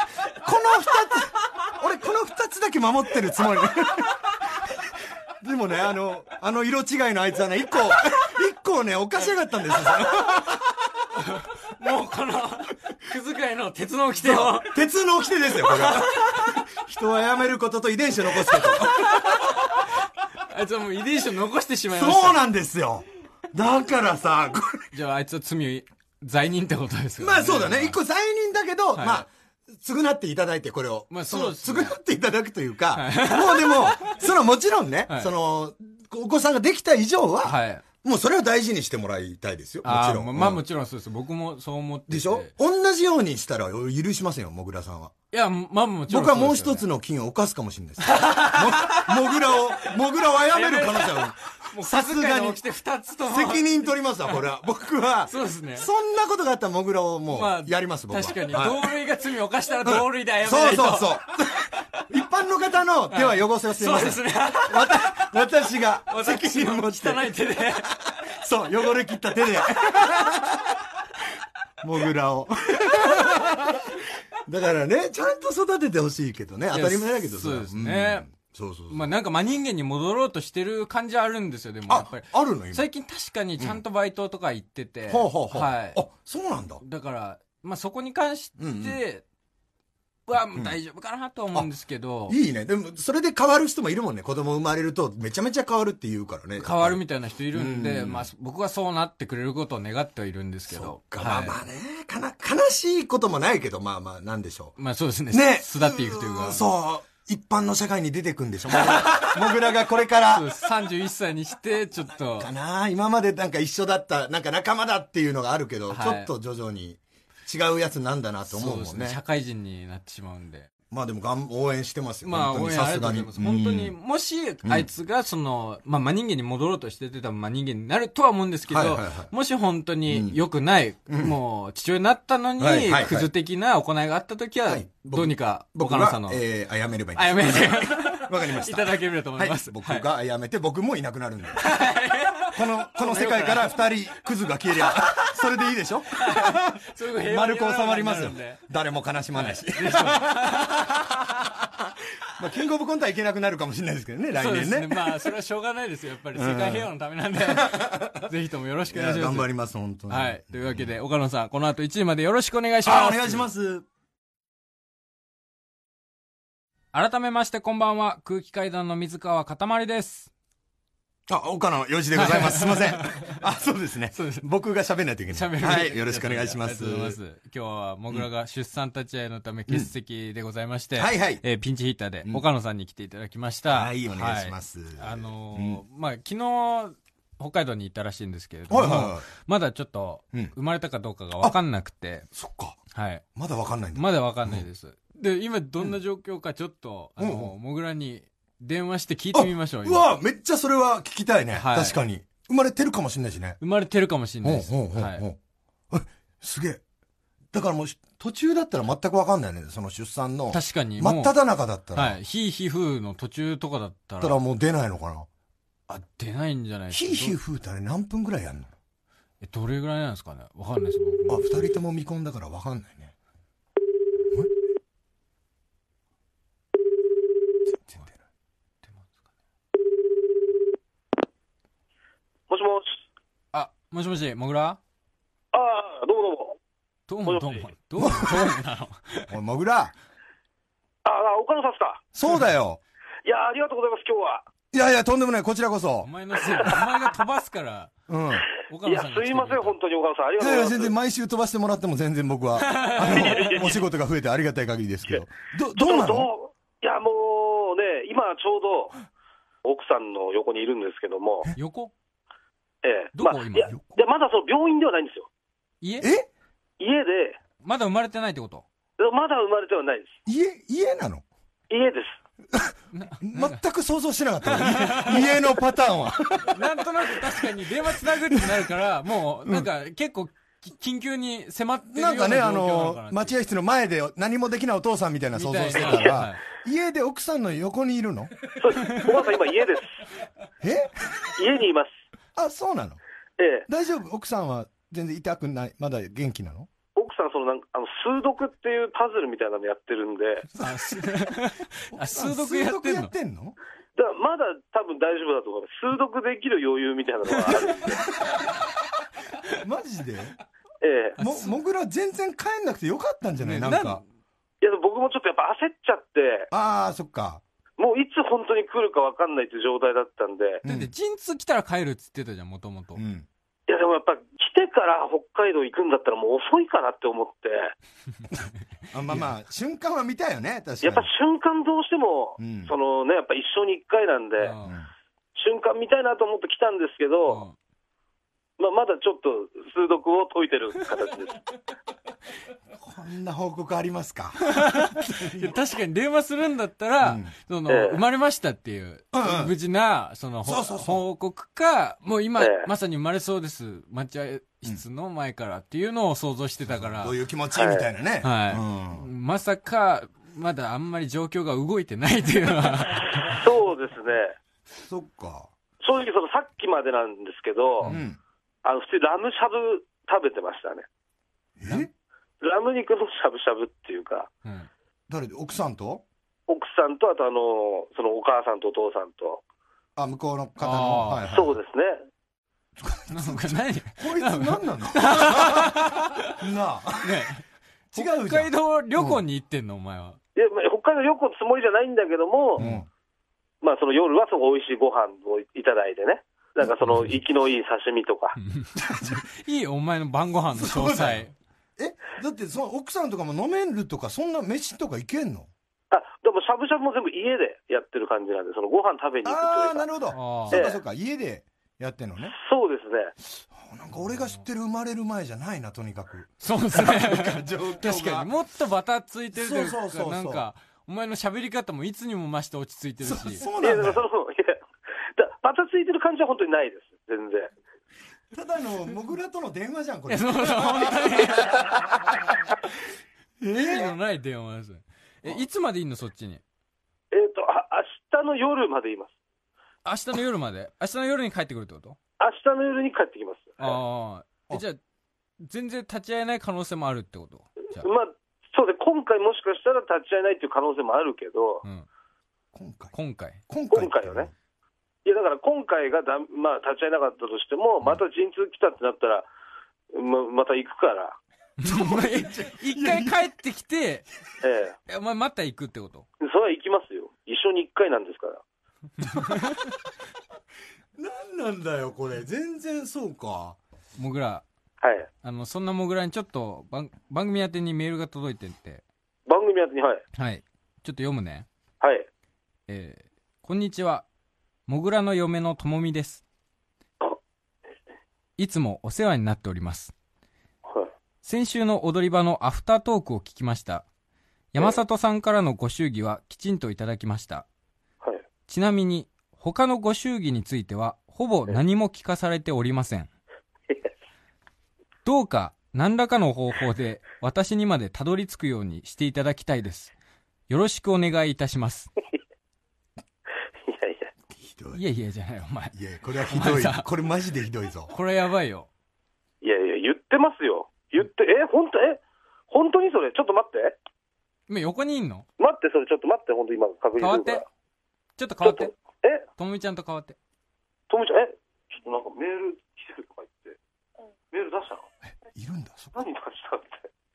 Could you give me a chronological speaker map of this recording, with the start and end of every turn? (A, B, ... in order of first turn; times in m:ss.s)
0:00.4-0:04.2 A
0:05.4-0:10.8 A
0:11.1-0:14.8 B
0:14.2-0:19.6 A
0:15.6-0:16.6 B
0:18.5-0:22.4 B
0:21.9-0:24.9 A
0:24.9-0:28.0 B
0:27.2-0:40.6 A
0:29.0-0:29.3 B
0:31.1-0:32.0 B
0:33.0-0:34.2 B
0:37.4-0:37.8 B
0:39.8-0:42.5 B
0:42.1-0:45.1 A
0:45.3-0:46.9 B
0:46.1-0:52.6 A
0:48.0-0:49.9 B
0:50.5-0:54.4 B
0:53.2-0:58.9 A
0:55.3-0:55.9 B
0:57.3-1:01.3 B
0:59.8-1:07.3 A
1:03.1-1:05.4 B
1:06.1-1:07.9 B
1:07.9-1:10.8 A
1:11.8-1:13.9 A
1:13.2-1:13.6 B
1:14.5-1:19.1 A
1:16.7-1:18.3 B
1:18.9-1:26.0 B
1:21.9-1:22.9 A
1:25.1-1:26.8 A
1:26.8-1:29.2 B
1:28.6-1:29.0 A
1:30.3-1:32.4 B
1:32.3-1:37.0 A
1:36.6-1:41.6 B
1:37.5-1:38.3 A
1:40.7-1:44.8 A
1:44.8-1:46.7 B
1:45.3-1:50.5 A
1:48.7-1:49.4 B
1:50.3-1:52.5 B
1:52.0-1:59.2 A
1:55.9-1:56.3 B
1:58.5-2:00.7 B
2:00.9-2:04.0 A
2:02.2-2:16.4 B
2:08.7-2:09.3 A
2:10.1-2:10.4 A
2:11.1-2:11.3 A
2:12.6-2:13.3 A
2:14.7-2:21.7 A
2:17.2-2:20.1 B
2:21.6-2:23.8 B
2:22.4-2:35.3 A
2:24.8-2:25.4 B
2:26.2-2:28.6 B
2:29.4-2:31.3 B
2:34.4-2:39.5 B
2:36.3-2:38.3 A
2:38.9-2:40.9 A
2:40.1-2:43.5 B
2:42.8-2:43.9 A
2:46.9-2:50.3 B
2:51.3-2:57.2 A
2:52.1-2:53.4 B
2:54.1-2:54.5 B
2:55.3-3:12.3 B
3:01.0-3:01.4 A
3:03.7-3:05.8 A
3:08.7-3:09.3 A
3:12.3-3:12.8 A
3:12.9-3:13.2 B
3:13.4-3:14.6 A
3:14.0-3:20.1 B
3:17.2-3:17.5 A
3:19.3-3:23.6 A
3:21.6-3:22.0 B
3:23.6-3:25.2 B
3:24.4-3:25.4 A
3:25.9-3:26.8 A
3:27.5-3:32.2 A
3:30.5-3:31.4 B
3:31.9-3:34.4 B
3:34.2-3:35.3 A
3:35.9-3:37.4 B
3:36.9-3:38.7 A
3:39.4-3:41.8 B
3:41.3-3:43.1 A
3:47.8-3:48.2 A
3:52.5-3:52.9 C
3:53.5-3:54.8 B
3:55.5-3:56.6 C
3:57.1-3:59.3 B
3:57.3-3:57.6 C
3:58.0-3:58.5 A
3:59.3-4:00.0 A
4:01.0-4:02.0 C
4:02.2-4:02.8 A
4:03.2-4:04.4 C
4:04.7-4:06.1 A
4:06.0-4:07.9 B
4:08.1-4:08.5 A
4:08.6-4:09.8 B
4:08.8-4:10.9 C
4:10.4-4:16.3 A
4:12.6-4:13.7 B
4:13.0-4:13.8 C
4:15.8-4:19.0 C
4:19.6-4:21.5 C
4:21.6-4:21.9 B
4:22.8-4:25.3 C
4:23.2-4:23.7 B
4:23.7-4:24.0 A
4:25.8-4:26.1 B
4:26.0-4:26.3 A
4:26.8-4:27.4 C
4:27.6-4:28.6 B
4:29.0-4:30.2 C
4:30.3-4:31.2 A
4:31.7-4:32.2 C
4:32.5-4:36.7 A
4:32.9-4:33.6 B
4:34.4-4:35.4 B
4:36.5-4:43.4 B
4:38.0-4:38.7 A
4:41.9-4:48.3 A
4:45.3-4:46.4 B
4:48.6-4:49.9 C
4:50.6-4:51.1 A
4:51.4-4:51.9 C
4:52.4-4:53.0 A
4:53.4-4:53.7 C
4:53.7-4:56.7 A
4:57.0-5:00.5 C
5:00.6-5:01.3 A
5:00.6-5:03.1 B
5:01.9-5:03.6 A
5:04.0-5:08.0 C
5:07.8-5:08.3 A
5:09.5-5:10.4 A
5:10.8-5:11.2 C
5:11.2-5:11.5 B
5:11.2-5:14.0 A
5:13.4-5:14.0 B
5:14.6-5:16.5 C
5:16.5-5:17.4 A
5:17.8-5:20.6 C
5:20.6-5:20.9 A
5:20.6-5:23.0 B
5:23.0-5:23.3 A
5:23.7-5:27.7 C
5:28.9-5:31.1 A
5:30.8-5:34.5 C
5:32.4-5:32.7 A
5:34.4-5:34.8 B
5:34.6-5:34.9 A
5:35.4-5:37.4 C
5:37.3-5:37.6 B
5:38.6-5:41.4 C
5:42.8-5:45.5 A
5:44.5-5:57.2 B
5:47.0-5:47.3 A
5:47.7-5:48.0 C
5:49.1-5:49.5 A
5:50.4-5:51.0 A
5:52.4-5:52.7 C
5:56.7-5:59.1 A
5:57.6-5:57.9 C
5:58.2-6:03.4 B
6:03.1-6:04.4 C
6:04.7-6:05.5 A
6:05.8-6:07.9 C
6:07.8-6:08.2 A
6:08.6-6:10.8 C
6:11.6-6:11.9 A
6:12.4-6:14.3 C
6:15.1-6:16.0 A
6:16.5-6:19.4 C
6:20.0-6:21.6 A
6:20.6-6:21.2 B
6:21.3-6:22.0 C
6:22.8-6:27.3 A
6:23.1-6:26.4 B
6:27.0-6:30.2 B
6:27.9-6:29.2 A
6:30.4-6:32.6 C
6:32.6-6:32.9 A
6:32.6-6:32.8 B
6:33.6-6:38.4 C
6:36.9-6:37.1 B
6:38.4-6:41.3 B
6:38.8-6:39.2 A
6:40.5-6:41.3 A
6:41.8-6:45.5 A
6:45.9-6:49.9 C
6:49.2-6:52.4 A
6:50.1-6:50.6 B
6:50.5-6:50.8 C
6:52.3-6:53.1 C
6:53.5-6:58.3 A
6:56.4-7:03.4 B
6:59.3-7:00.4 A
7:03.0-7:04.0 A
7:03.6-7:04.6 C
7:05.2-7:07.5 C
7:08.3-7:11.8 A
7:10.1-7:11.7 B
7:13.4-7:13.9 A
7:13.5-7:16.4 B
7:17.1-7:19.1 C
7:19.8-7:22.0 B
7:22.2-7:23.8 C
7:23.6-7:24.8 B
7:25.4-7:27.9 B
7:27.8-7:31.6 C
7:32.5-7:33.0 A
7:32.9-7:33.4 B
7:33.5-7:34.3 A
7:33.7-7:34.3 C
7:35.0-7:39.3 C
7:39.9-7:41.2 C
7:41.6-7:44.1 B
7:41.6-7:43.3 A
7:44.4-7:44.8 C
7:44.9-7:46.0 B
7:46.2-7:48.4 C
7:49.1-7:49.4 B
7:51.0-7:53.6 A
7:54.0-7:54.4 B
7:54.8-7:55.1 C
7:55.2-7:58.8 B
7:59.3-8:00.0 C
8:00.2-8:01.5 B
8:01.8-8:02.1 C
8:02.7-8:04.1 B
8:04.7-8:06.2 B
8:08.4-8:09.9 B
8:10.6-8:10.9 C
8:11.2-8:13.8 B
8:14.5-8:17.5 B
8:18.5-8:23.1 B
8:25.0-8:29.9 B
8:30.5-8:31.9 B
8:33.7-8:34.1 C
8:34.3-8:34.8 A
8:34.7-8:35.8 B
8:35.7-8:37.9 A
8:36.3-8:36.9 B
8:37.9-8:38.7 B
8:39.4-8:43.8 C
8:44.5-8:45.2 B
8:45.4-8:47.4 C
8:47.0-8:47.4 B
8:48.2-8:48.7 B
8:48.4-8:49.2 C
8:49.4-8:50.2 B
8:50.9-8:53.6 C
8:54.3-8:54.9 C
8:55.3-8:56.0 A
8:56.0-8:56.9 C